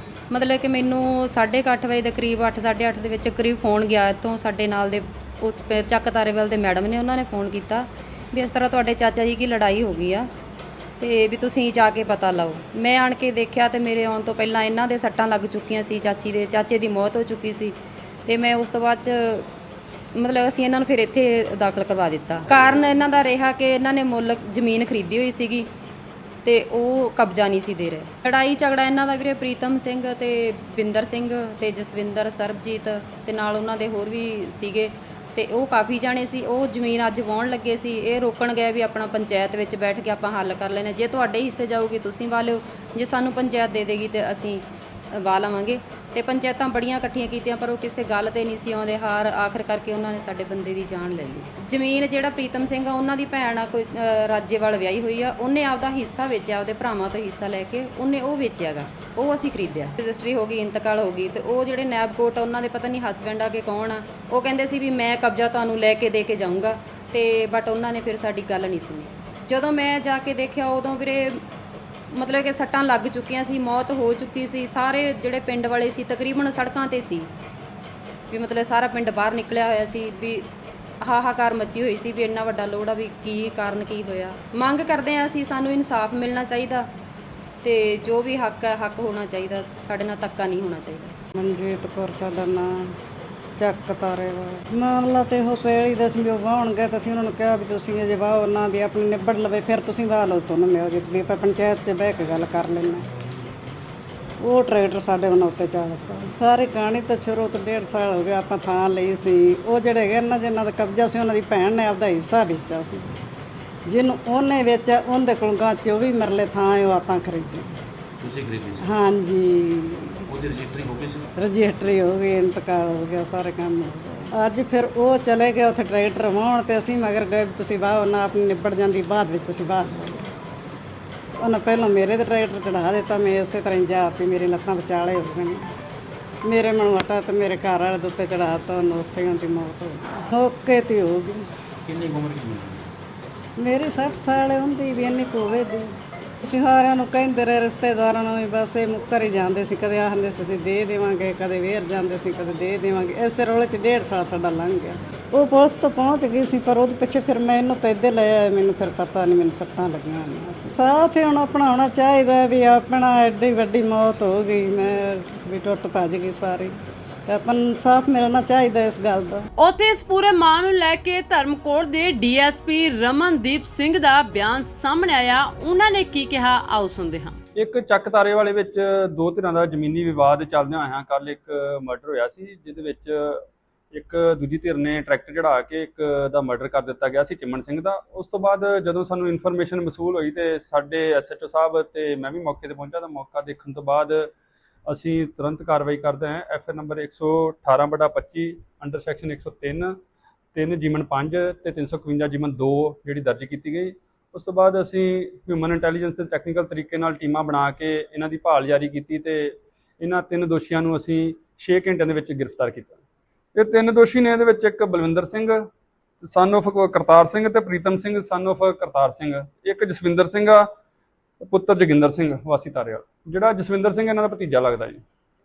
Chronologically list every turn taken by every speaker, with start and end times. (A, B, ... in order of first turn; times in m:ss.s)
0:00.3-0:10.3 A
0:11.0-0:19.5 A
0:20.2-0:25.7 A
0:26.4-0:44.6 A
0:45.2-1:11.4 A
1:12.1-1:17.3 A
1:18.3-1:20.4 A
1:21.0-1:26.9 A
1:27.6-1:31.2 A
1:31.4-1:33.0 B
1:33.6-1:43.1 B
1:44.4-1:53.1 B
1:53.9-1:57.7 B
1:58.2-1:58.8 C
1:58.8-2:00.2 B
2:00.3-2:01.3 C
2:01.4-2:10.3 B
2:11.4-2:15.7 B
2:16.4-2:21.5 B
2:21.9-2:22.9 C
2:23.6-2:49.5 B
2:49.6-2:57.4 D
2:57.6-3:14.3 E
3:14.9-3:20.0 E
3:20.5-3:33.0 E
3:33.6-3:35.6 E
3:36.2-3:40.7 E
3:41.5-3:45.0 E